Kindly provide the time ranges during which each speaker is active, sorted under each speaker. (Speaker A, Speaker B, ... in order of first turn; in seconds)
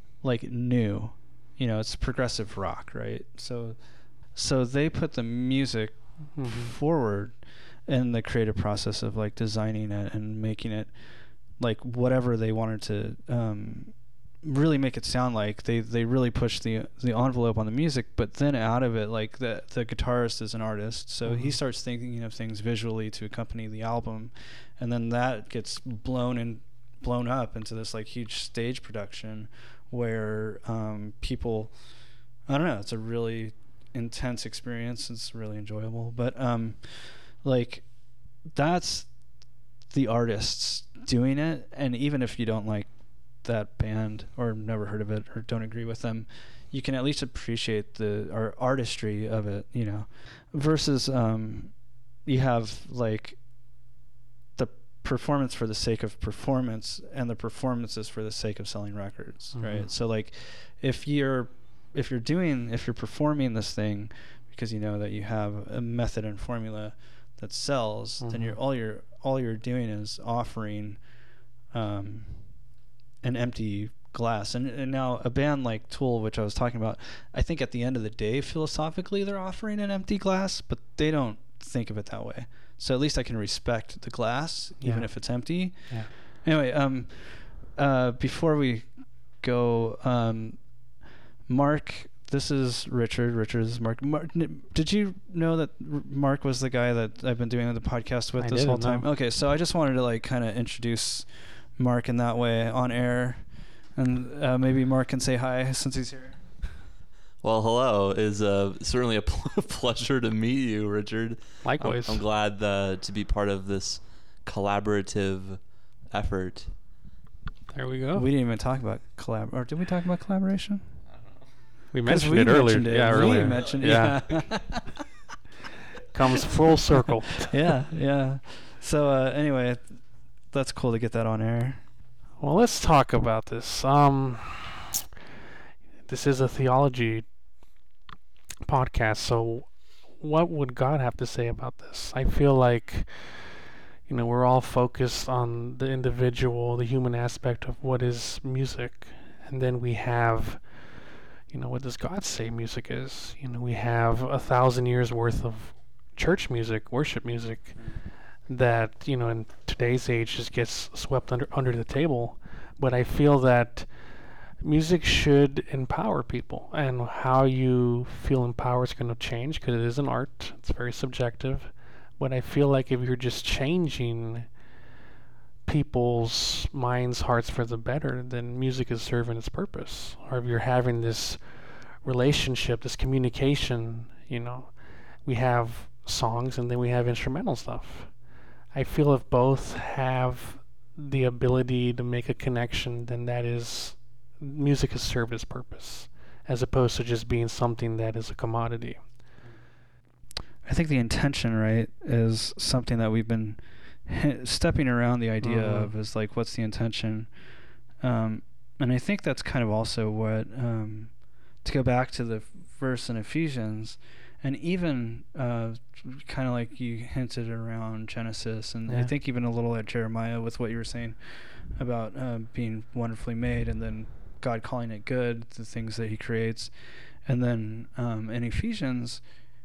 Speaker A: 0.2-53.4, 54.6-71.0, 71.7-72.6, 73.2-106.8, 118.1-121.0, 122.1-125.0, 127.5-131.9, 200.6-207.4, 208.0-229.2
Speaker B: 6.3-6.7, 21.2-21.6, 59.5-59.9, 68.2-68.6, 84.8-86.1, 98.4-99.1, 111.6-112.2, 117.7-118.3, 121.9-124.5, 126.1-127.5, 132.4-135.0, 136.1-137.3, 138.6-174.5, 175.7-199.1, 205.4-205.9
Speaker C: 107.4-116.8, 123.1-124.9